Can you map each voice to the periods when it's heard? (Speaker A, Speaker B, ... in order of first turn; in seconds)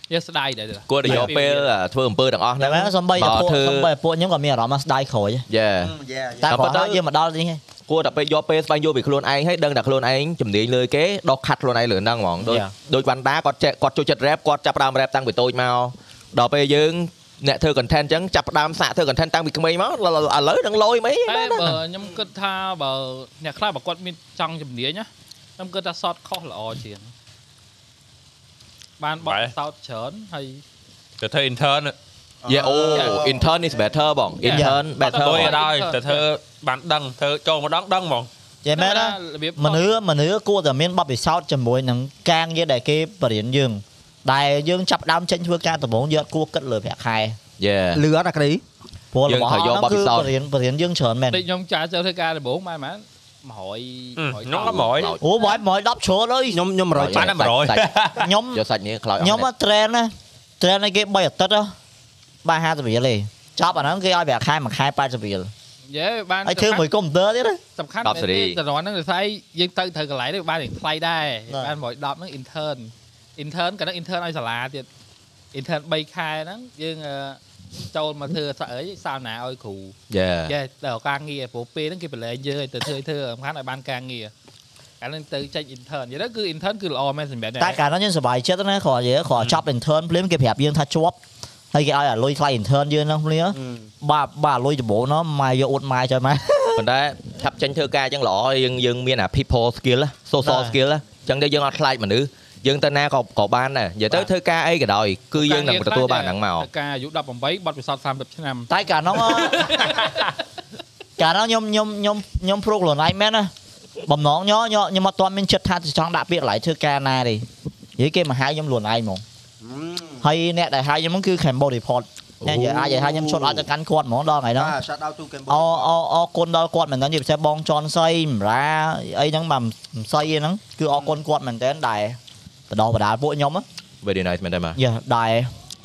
Speaker A: 0.1-1.7, 21.3-27.1, 29.0-30.6, 32.9-33.2, 34.4-36.2, 38.8-39.9, 51.3-55.2, 65.9-66.9, 67.8-74.9, 75.5-77.4, 77.9-80.0, 80.5-84.3, 85.0-87.8, 105.4-108.7, 109.5-110.3
Speaker B: 0.9-3.9, 5.5-5.9, 6.5-7.0, 7.9-21.7, 32.5-35.6, 47.6-48.0, 49.3-50.3, 54.6-55.2, 57.0-57.9, 58.5-59.5, 68.0-68.6, 80.1-80.6, 96.8-106.7, 134.0-134.8
Speaker C: 2.6-5.5, 6.4-7.6, 12.4-12.7, 34.5-34.8, 38.6-47.4, 49.1-51.4, 55.2-56.6, 58.2-58.6, 59.2-61.7, 62.4-65.5, 66.5-67.6, 71.5-71.7, 87.6-91.2, 91.7-96.8, 100.4-100.8, 108.7-109.9, 111.2-113.5, 114.1-119.2, 120.2-124.8, 125.5-132.2, 132.7-133.7, 134.8-135.5
Speaker D: 5.8-6.7, 32.4-33.8, 47.9-48.6, 56.5-57.6, 93.5-93.9, 119.6-120.2, 122.5-123.7, 124.6-125.9
Speaker E: 29.2-29.5, 31.2-31.9, 35.0-38.3, 54.2-55.1, 57.1-58.3